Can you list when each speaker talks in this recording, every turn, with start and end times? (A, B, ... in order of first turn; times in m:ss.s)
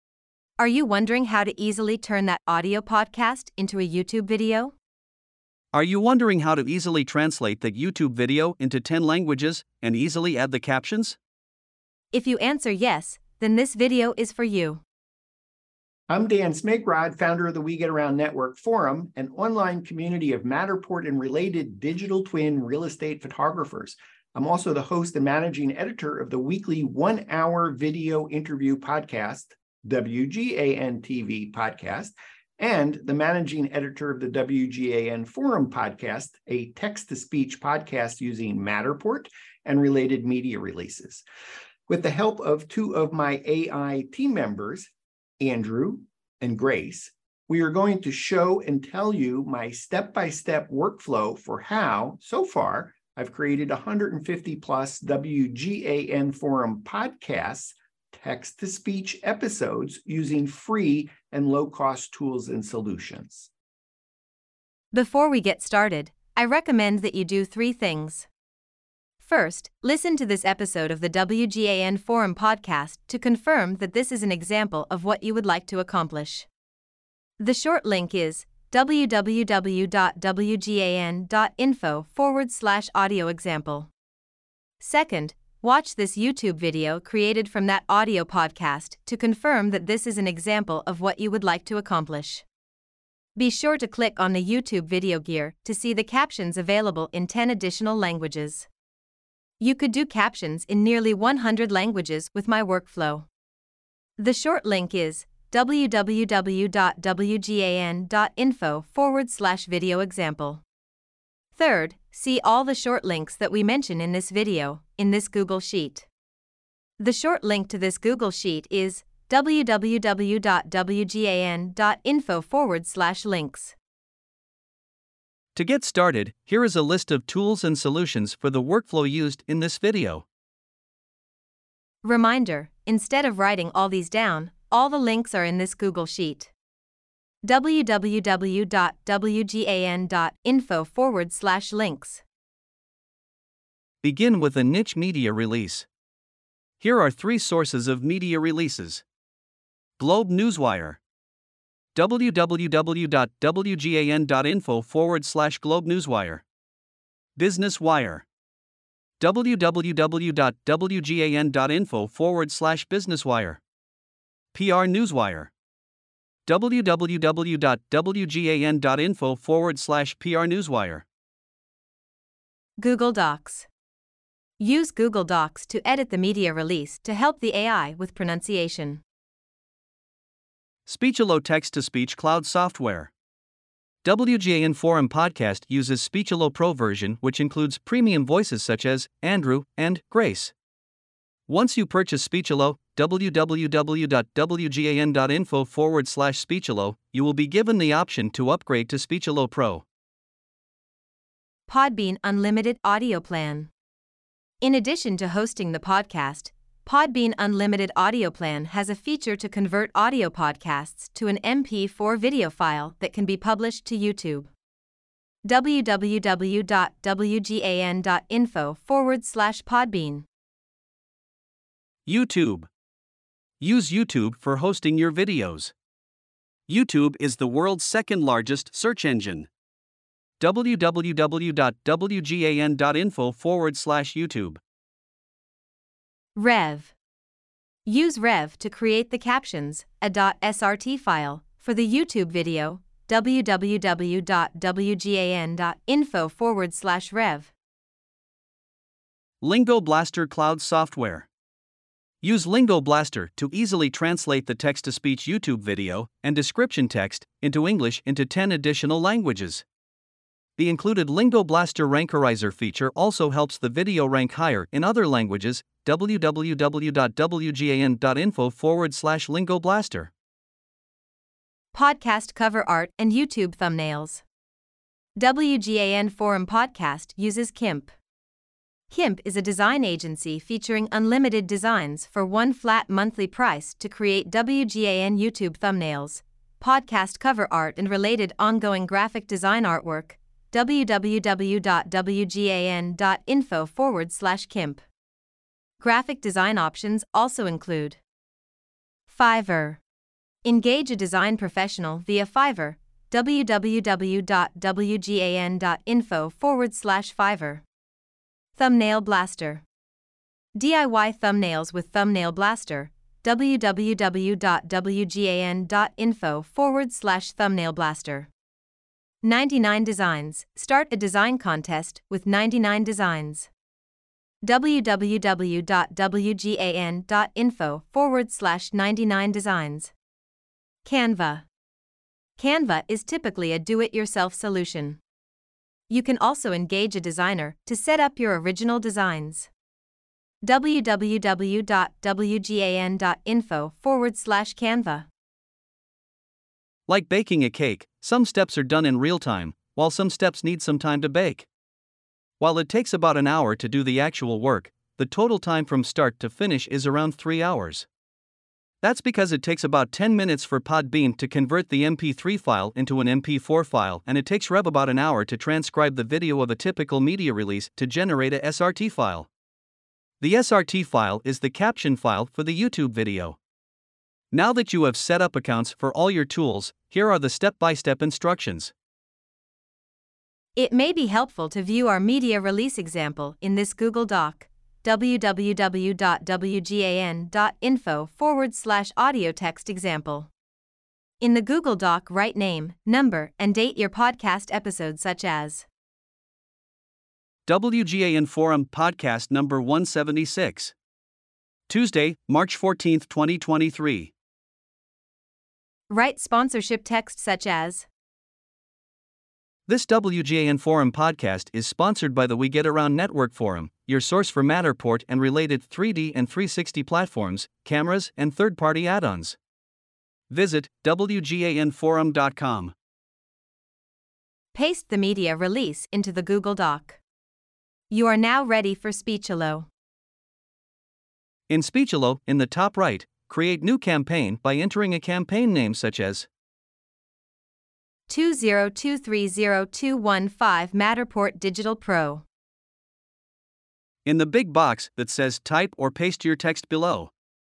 0:00.6-0:04.8 A
0:05.7-0:11.2 B
0:12.1-0:14.8 A
0:16.1-0:41.2 C
0:41.9-1:03.5 C
1:04.9-1:08.3 A
1:09.2-1:16.5 A
1:17.4-1:23.9 A
1:24.8-1:32.4 A
1:33.4-1:38.7 A
1:39.6-1:43.3 A
1:44.2-1:50.6 A
1:51.5-1:56.1 A
1:57.0-2:03.8 A
2:05.6-2:10.2 B
2:12.0-2:16.5 A
2:17.4-2:22.2 A
2:24.0-2:25.9 B
2:26.8-2:29.0 B
2:30.0-2:31.0 B
2:32.0-2:36.4 B
2:37.4-2:38.2 B
2:39.2-2:43.6 B
2:44.5-2:45.5 B
2:46.5-2:51.0 B
2:52.8-2:53.7 A
2:54.6-2:59.0 A
3:00.9-3:03.1 B
3:04.0-3:10.5 B
3:11.5-3:19.8 B
3:21.7-3:23.7 A
3:24.6-3:34.5 A
3:35.4-3:40.3 A
3:42.1-3:42.7 B
3:43.6-3:45.7 B
3:46.7-3:49.5 B
3:50.4-3:54.6 B
3:56.4-3:56.9 A
3:57.9-4:07.5 A
4:09.4-4:11.3 B
4:12.2-4:19.6 B
4:20.6-4:30.1 B
4:31.7-4:34.2 A
4:35.2-4:37.9 A
4:38.9-4:54.8 A
4:55.8-4:58.0 A
4:59.1-4:59.8 A
5:00.4-5:07.6 A
5:08.6-5:09.6 A
5:10.6-5:18.3 A
5:19.2-5:23.5 A
5:24.4-5:29.9 A
5:30.8-5:31.5 A
5:32.4-5:35.0 A
5:35.9-5:39.5 A
5:40.4-5:45.1 A
5:46.9-5:51.5 B
5:52.4-5:57.9 B
5:58.8-6:09.3 B
6:10.2-6:13.4 B
6:14.3-6:18.7 B
6:20.6-6:30.3 A
6:31.2-6:35.7 A
6:37.5-6:40.7 B
6:41.7-6:44.1 B
6:45.9-6:47.9 A
6:49.7-6:59.4 B
7:00.3-7:02.7 B
7:04.5-7:07.0 A
7:07.9-7:09.7 A
7:11.5-7:16.3 B
7:18.1-7:22.2 A
7:24.0-7:27.1 B